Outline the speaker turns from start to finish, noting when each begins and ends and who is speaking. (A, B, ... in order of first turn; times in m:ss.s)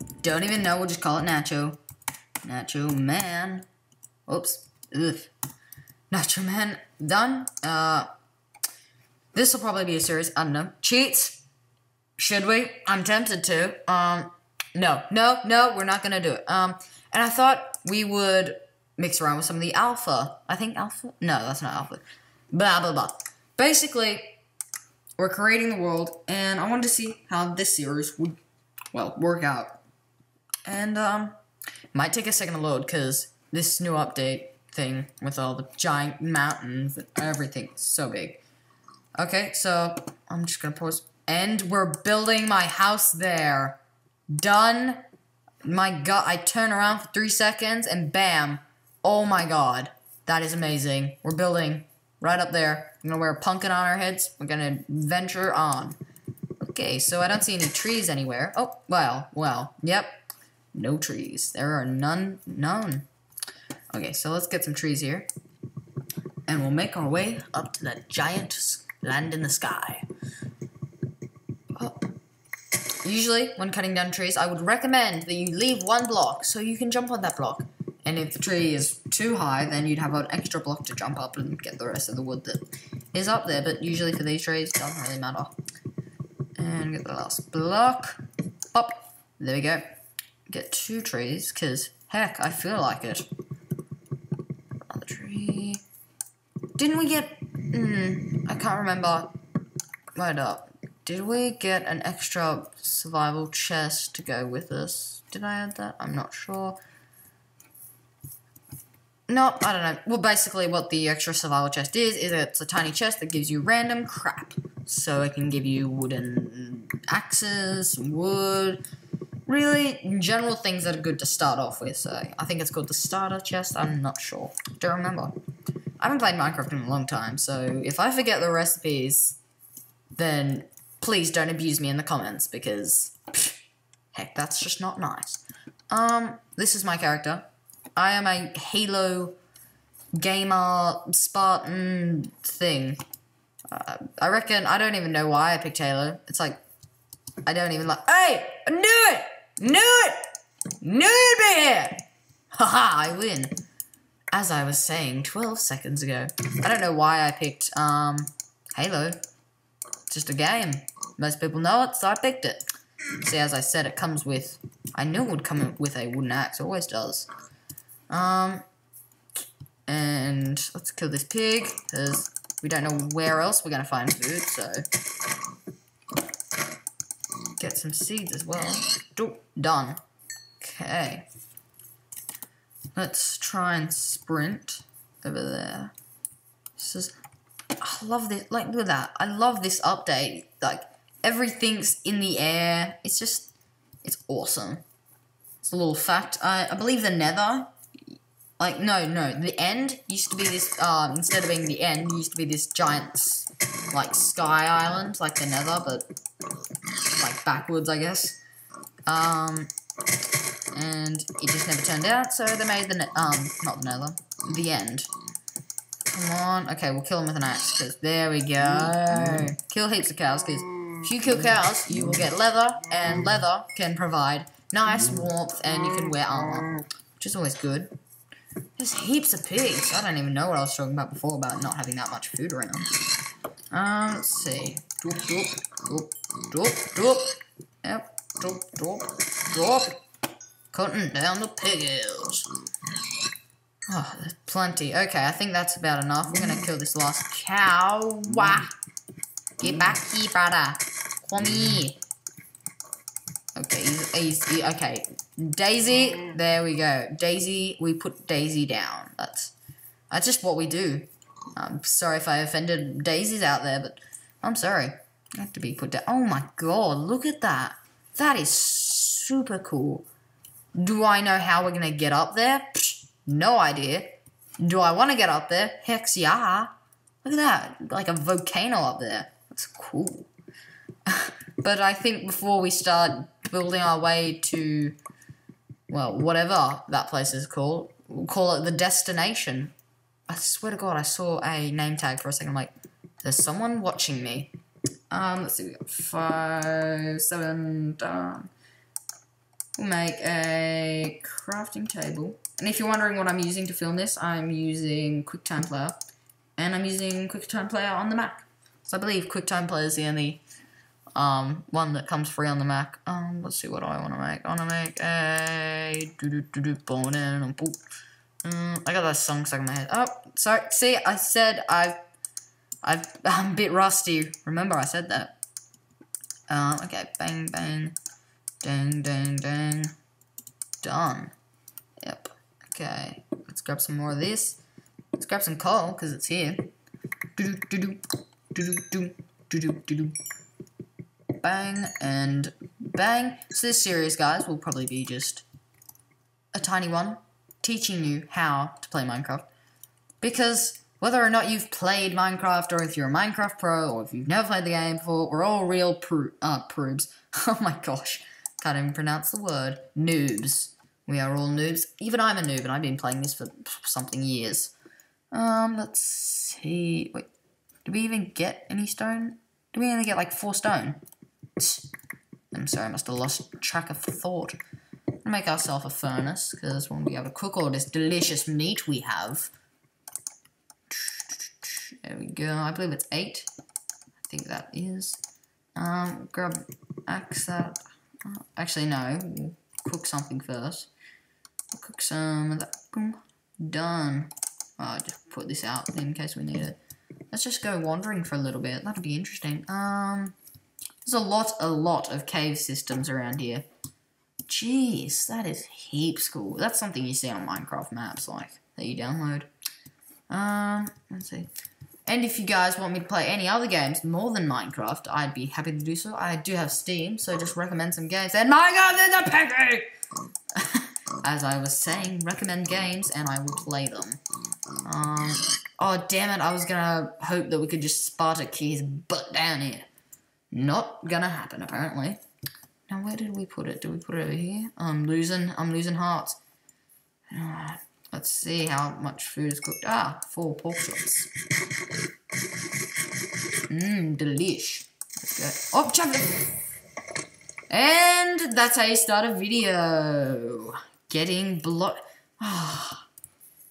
0:00.2-0:01.8 A
0:02.4-0:03.7 A
0:04.3-0:05.3 A
0:06.1-0:08.1 A
0:09.3-0:11.4 A
0:12.2-0:24.4 A
0:25.2-0:28.4 A
0:28.9-0:29.8 A
0:30.6-0:31.4 A
0:31.9-0:38.4 A
0:39.2-0:45.0 A
0:45.6-0:56.0 A
0:56.6-1:00.2 A
1:00.7-1:03.0 A
1:03.9-1:05.3 A
1:06.5-1:10.0 A
1:11.7-1:12.1 A
1:13.0-1:25.6 A
1:26.6-1:28.2 A
1:28.7-1:29.9 A
1:30.5-1:33.3 A
1:34.9-1:35.8 A
1:36.7-1:39.3 A
1:40.1-1:46.8 A
1:49.3-1:58.8 A
1:59.4-2:05.4 A
2:06.0-2:09.4 A
2:10.2-2:13.6 A
2:14.1-2:17.4 A
2:18.0-2:19.4 A
2:20.1-2:23.0 A
2:23.7-2:26.6 A
2:27.4-2:30.2 A
2:30.8-2:33.5 A
2:34.3-2:39.2 A
2:40.1-2:42.7 A
2:43.2-2:47.3 A
2:48.1-2:48.6 A
2:49.9-2:54.8 A
2:57.6-3:00.0 A
3:00.6-3:01.3 A
3:02.9-3:05.9 A
3:06.8-3:07.2 A
3:07.8-3:14.8 A
3:15.6-3:17.7 A
3:18.6-3:26.1 A
3:27.1-3:28.4 A
3:29.1-3:29.7 A
3:30.7-3:35.1 A
3:36.0-3:47.9 A
3:48.8-3:52.9 A
3:53.7-4:00.0 A
4:00.7-4:02.5 A
4:03.9-4:08.7 A
4:09.6-4:12.0 A
4:13.6-4:19.5 A
4:20.1-4:30.1 A
4:30.8-4:36.7 A
4:37.2-4:40.3 A
4:41.1-4:45.0 A
4:45.9-4:49.7 A
4:50.3-4:54.5 A
4:55.1-4:58.5 A
4:59.8-5:06.0 A
5:06.6-5:10.4 A
5:11.2-5:17.8 A
5:18.4-5:22.0 A
5:22.8-5:25.4 A
5:26.5-5:28.0 A
5:28.6-5:29.9 A
5:30.8-5:31.3 A
5:32.0-5:34.6 A
5:35.2-5:36.7 A
5:37.4-5:40.2 A
5:41.4-5:45.4 A
5:46.5-5:49.5 A
5:50.2-6:04.7 A
6:05.3-6:07.3 A
6:07.8-6:11.0 A
6:11.6-6:11.9 A
6:12.5-6:14.6 A
6:15.2-6:19.5 A
6:20.9-6:23.5 A
6:24.2-6:25.2 A
6:25.8-6:30.9 A
6:31.7-6:36.8 A
6:37.3-6:40.4 A
6:41.0-6:43.7 A
6:44.5-6:49.5 A
6:50.3-6:51.5 A
6:52.1-6:59.9 A
7:00.6-7:04.2 A
7:04.8-7:09.9 A
7:10.5-7:12.2 A
7:12.9-7:16.4 A
7:17.3-7:21.3 A
7:23.7-7:26.6 A
7:27.7-7:33.1 A